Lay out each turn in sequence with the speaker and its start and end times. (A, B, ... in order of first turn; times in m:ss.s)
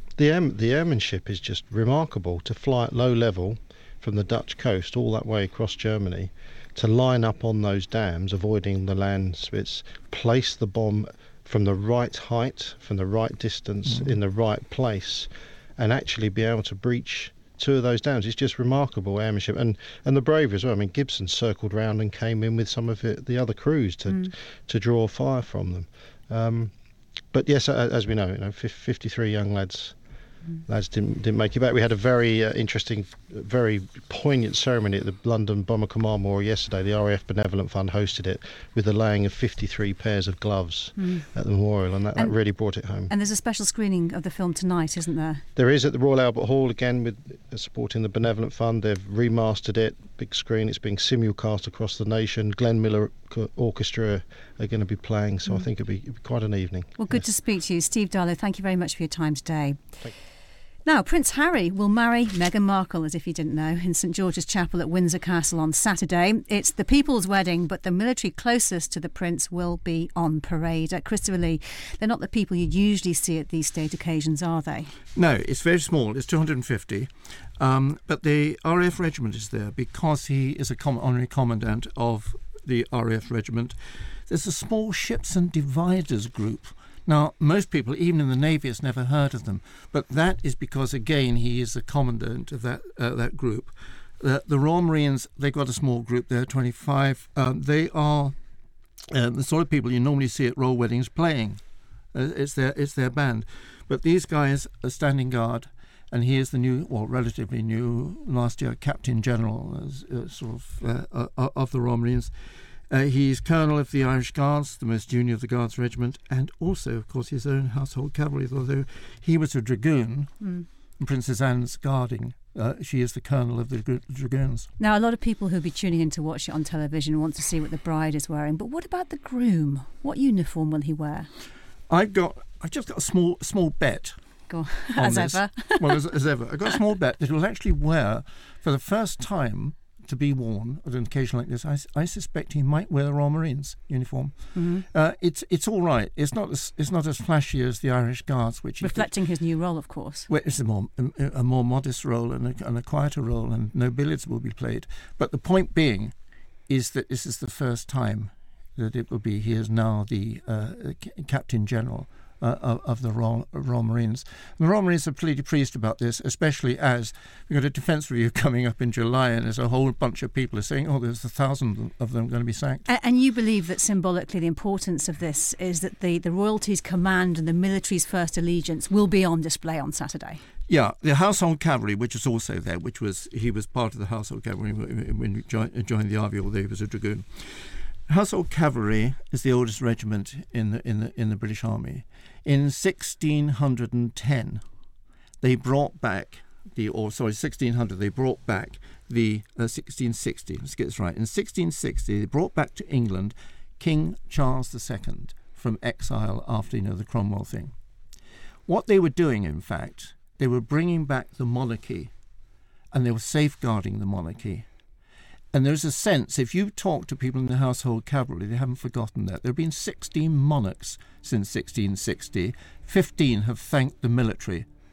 0:00.2-0:26.7 A
0:13.8-0:14.1 B
0:27.3-0:30.0 A
0:30.6-0:43.1 A
0:41.0-0:41.2 C
0:43.1-0:45.4 C
0:45.5-0:57.2 A
0:57.0-0:59.9 C
1:00.8-1:14.9 C
1:15.1-1:38.3 B
1:39.1-1:41.6 B
1:42.1-1:52.3 B
1:52.9-2:00.4 B
2:01.0-2:04.7 B
2:04.8-2:11.3 C
2:11.9-2:14.2 B
2:14.5-2:16.0 C
2:14.9-2:29.1 B
2:24.5-2:24.8 C
2:28.8-2:30.3 C
2:30.3-2:36.1 B
2:36.7-2:52.8 B
2:52.8-3:00.4 C
3:00.7-3:14.6 B
3:15.4-3:27.7 B
3:28.7-3:32.1 B
3:32.9-3:34.6 B
3:35.5-3:44.6 B